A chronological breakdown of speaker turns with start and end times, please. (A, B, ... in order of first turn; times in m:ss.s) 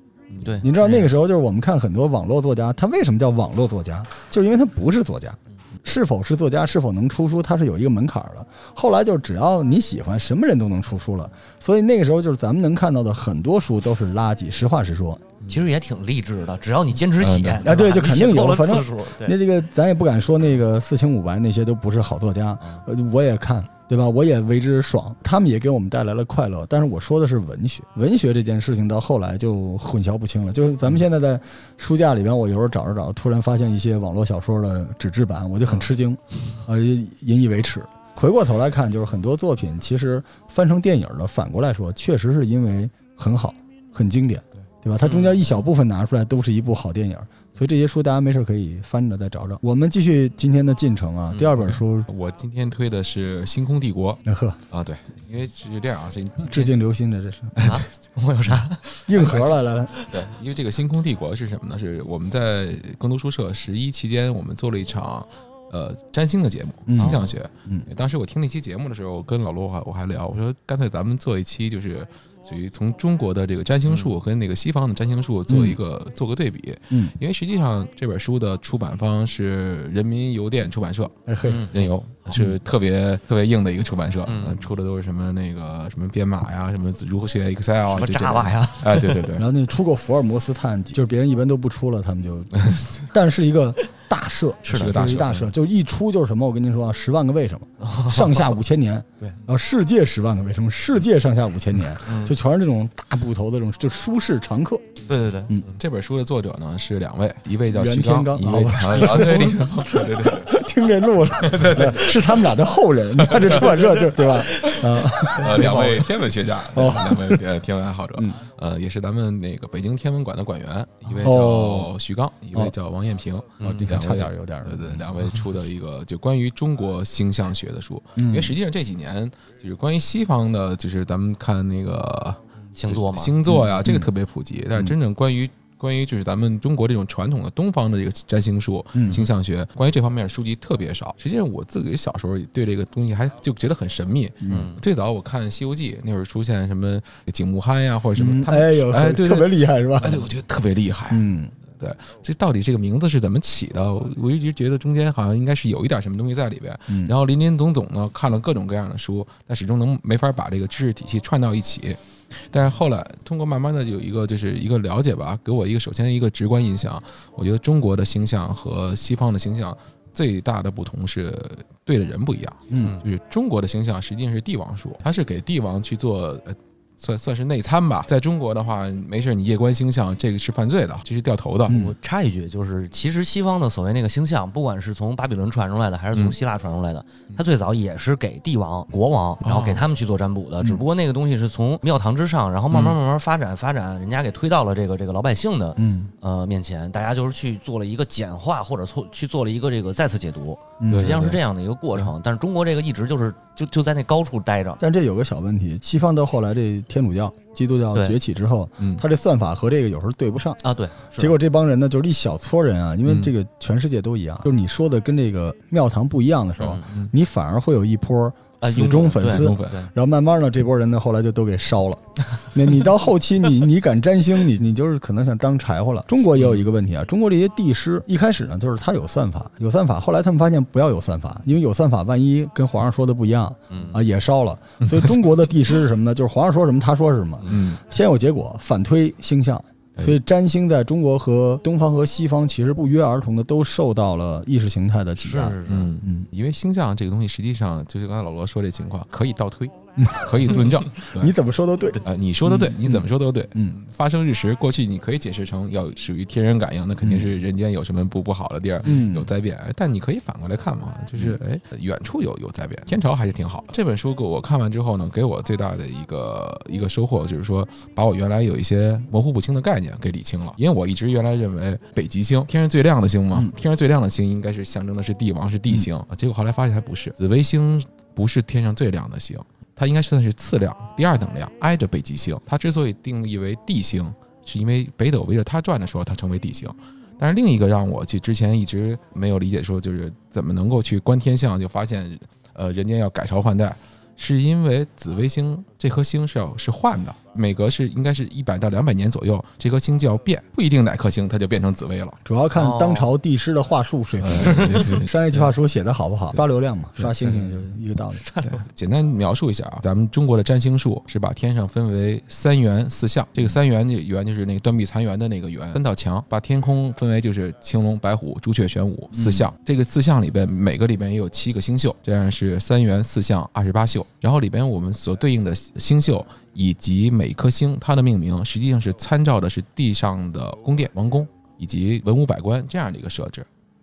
0:00.3-0:00.6 A
0:00.4-0:01.1 B
0:00.6-0:15.2 C
0:15.5-0:19.3 B
0:17.2-0:17.7 A
0:17.6-0:52.1 C
0:45.1-0:45.4 B
0:51.3-0:56.8 A
0:54.2-0:54.6 C
0:56.4-0:57.6 C
0:57.6-0:57.9 A
0:57.6-0:58.8 B
0:58.4-0:59.6 A
0:59.1-0:59.9 C
1:00.0-1:00.3 B
1:00.1-1:29.4 A
1:06.9-1:07.9 C
1:07.0-1:07.3 B
1:13.8-1:14.2 B
1:15.5-1:15.8 C
1:16.9-1:17.2 C
1:21.3-1:21.6 C
1:21.4-1:22.4 B
1:24.2-1:24.7 B
1:27.9-1:29.3 B
1:29.3-1:44.8 C
1:32.6-1:33.0 A
1:34.6-1:35.2 B
1:34.7-1:35.5 A
1:37.8-1:38.5 B
1:42.0-1:42.4 B
1:45.1-1:45.7 B
1:45.7-1:50.6 A
1:47.7-1:57.4 C
1:51.4-1:52.6 A
1:53.2-2:42.0 A
2:01.1-2:01.9 C
2:03.6-2:03.9 B
2:03.6-2:05.1 C
2:08.2-2:08.5 C
2:12.8-2:13.4 B
2:13.5-2:14.1 C
2:18.9-2:19.2 C
2:24.4-2:24.7 C
2:24.5-2:24.8 B
2:28.1-2:30.2 C
2:31.1-2:31.5 C
2:36.9-2:37.1 C
2:42.5-3:01.8 A
2:52.7-2:53.0 C
3:01.7-3:02.0 C
3:01.7-3:24.8 B
3:09.4-3:09.8 A
3:12.7-3:13.0 A
3:15.8-3:16.1 C
3:20.8-3:21.4 C
3:20.9-3:21.4 A
3:24.8-3:30.6 C
3:28.8-3:29.0 A
3:30.6-3:31.3 B
3:31.2-4:06.3 C
3:33.0-3:33.3 A
3:36.6-3:36.9 B
3:36.6-3:37.1 A
3:38.6-3:39.9 B
3:39.2-3:39.8 A
3:53.7-3:54.0 B
3:54.8-3:55.1 A
3:57.5-3:57.8 A
4:05.2-4:06.0 B
4:05.6-4:11.3 A
4:10.0-4:13.8 C
4:12.0-5:02.2 A
4:17.0-4:17.3 C
4:18.8-4:19.3 C
5:02.2-5:08.2 C
5:02.6-5:03.1 B
5:04.2-5:05.1 A
5:04.4-5:04.9 B
5:07.0-5:07.6 A
5:08.2-5:08.6 B
5:08.4-5:33.5 A
5:19.1-5:19.5 C